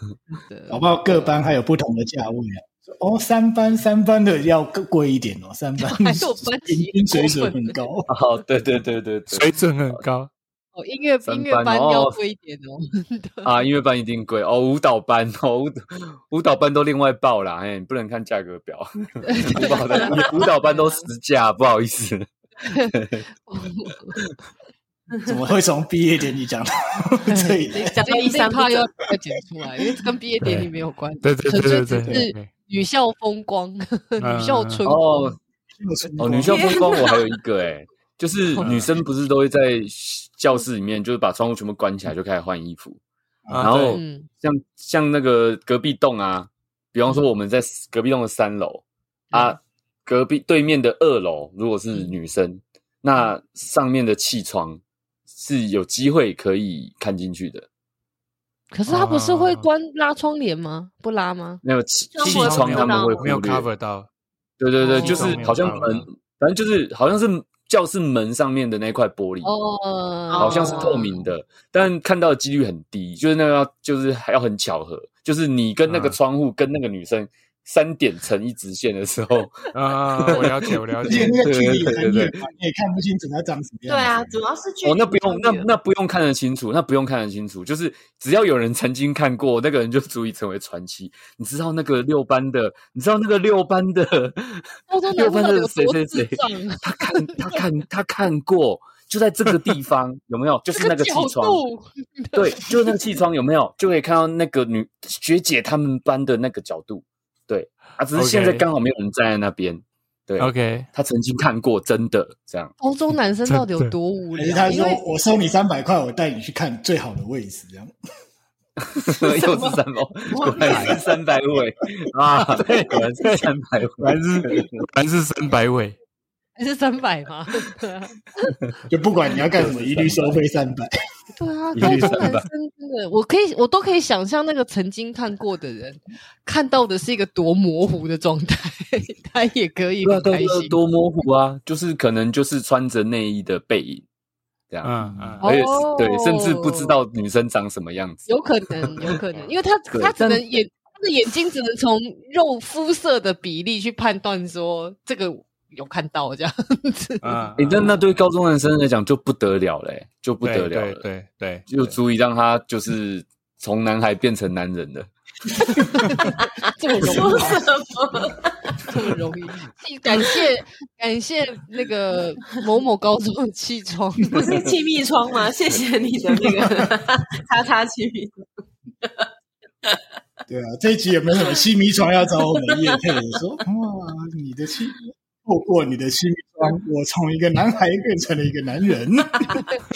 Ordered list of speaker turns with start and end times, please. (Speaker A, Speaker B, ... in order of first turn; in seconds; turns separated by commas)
Speaker A: 0.3-1.4, Speaker B: 0.7-8.1, Speaker A: 5.8-7.8, Speaker C: 8.1-10.0, Speaker D: 9.3-10.3, Speaker A: 10.7-13.5, Speaker C: 11.2-12.2, Speaker C: 13.4-22.3, Speaker A: 19.2-21.1, Speaker E: 19.9-20.3, Speaker A: 22.6-22.9, Speaker C: 22.9-23.2, Speaker A: 23.4-24.2, Speaker E: 25.1-25.4, Speaker B: 25.2-27.9, Speaker A: 27.3-35.3, Speaker E: 27.7-28.9, Speaker D: 30.4-30.7, Speaker D: 31.2-32.5, Speaker D: 34.2-34.9, Speaker C: 34.9-35.4, Speaker B: 35.8-36.8, Speaker C: 36.2-43.0, Speaker E: 36.4-37.3, Speaker D: 38.6-38.9, Speaker D: 43.5-44.0, Speaker C: 43.6-54.8, Speaker A: 43.9-44.3, Speaker A: 49.3-49.6, Speaker C: 55.3-57.7, Speaker A: 58.7-61.6, Speaker D: 58.9-59.7, Speaker C: 61.6-63.7, Speaker E: 62.1-63.3, Speaker D: 62.2-64.1, Speaker C: 64.6-69.5, Speaker A: 64.8-65.5, Speaker D: 64.8-66.1, Speaker A: 69.4-71.2, Speaker E: 70.3-71.1, Speaker C: 70.4-79.6, Speaker D: 75.9-76.2, Speaker D: 79.7-81.4, Speaker C: 80.2-80.6, Speaker B: 81.0-84.4, Speaker C: 81.1-82.4, Speaker E: 83.9-85.7, Speaker C: 84.8-101.6, Speaker A: 94.9-97.6, Speaker A: 100.8-103.0, Speaker C: 102.3-112.7, Speaker D: 108.1-108.7, Speaker D: 110.4-110.9, Speaker A: 112.8-115.0, Speaker D: 113.5-113.9, Speaker B: 114.3-117.9, Speaker C: 118.9-124.8, Speaker E: 119.1-121.0, Speaker D: 124.0-126.0, Speaker A: 126.6-128.6, Speaker B: 128.9-130.9, Speaker C: 129.5-130.3, Speaker A: 131.3-140.8, Speaker C: 131.7-132.5, Speaker C: 140.0-144.1, Speaker C: 144.7-149.1, Speaker D: 144.8-145.4, Speaker A: 145.4-147.0, Speaker A: 148.3-157.4, Speaker D: 149.2-149.5, Speaker C: 149.9-150.4, Speaker D: 157.2-158.0, Speaker C: 157.6-161.0, Speaker D: 160.4-162.0, Speaker C: 161.7-165.1, Speaker E: 165.7-168.9, Speaker A: 166.8-167.6, Speaker A: 168.8-174.5, Speaker E: 174.4-178.4, Speaker E: 179.0-179.3, Speaker B: 180.5-189.6, Speaker E: 182.5-183.0